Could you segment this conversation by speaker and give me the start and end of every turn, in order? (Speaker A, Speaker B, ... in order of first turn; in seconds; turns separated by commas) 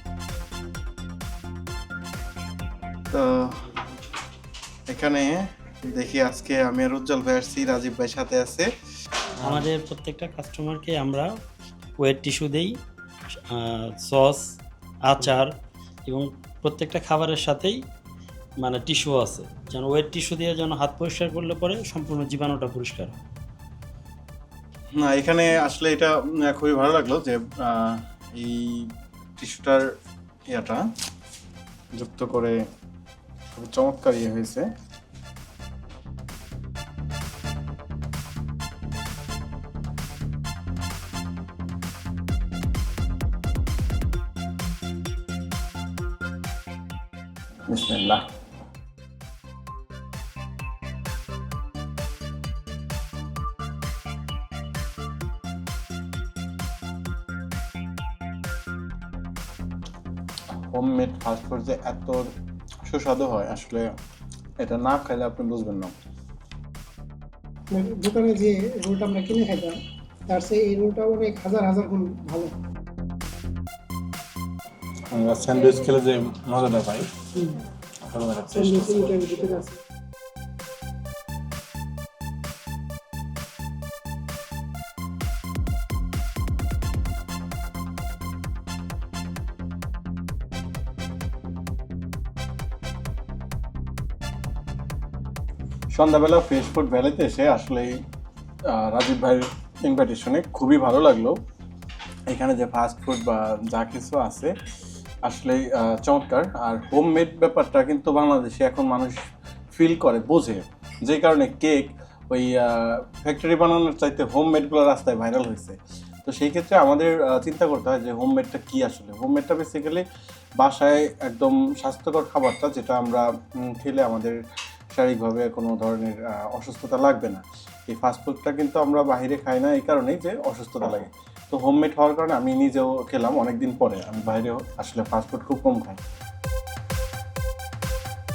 Speaker A: 3.1-3.5, Speaker A: 4.9-8.7, Speaker B: 9.4-11.3, Speaker B: 12.0-12.8, Speaker B: 13.5-15.5, Speaker B: 16.1-17.8, Speaker B: 18.6-23.1, Speaker A: 25.0-29.8, Speaker A: 30.5-30.8, Speaker A: 31.9-32.6, Speaker A: 33.5-34.7, Speaker A: 47.7-48.2, Speaker A: 60.7-62.2, Speaker A: 62.9-63.9, Speaker A: 64.6-65.9, Speaker C: 67.7-69.8, Speaker C: 70.3-72.5, Speaker A: 75.1-77.1, Speaker A: 78.1-79.1, Speaker C: 78.5-79.8, Speaker A: 95.9-97.9, Speaker A: 98.7-101.3, Speaker A: 102.3-104.5, Speaker A: 105.2-109.2, Speaker A: 109.7-120.0, Speaker A: 120.6-124.3, Speaker A: 124.9-136.0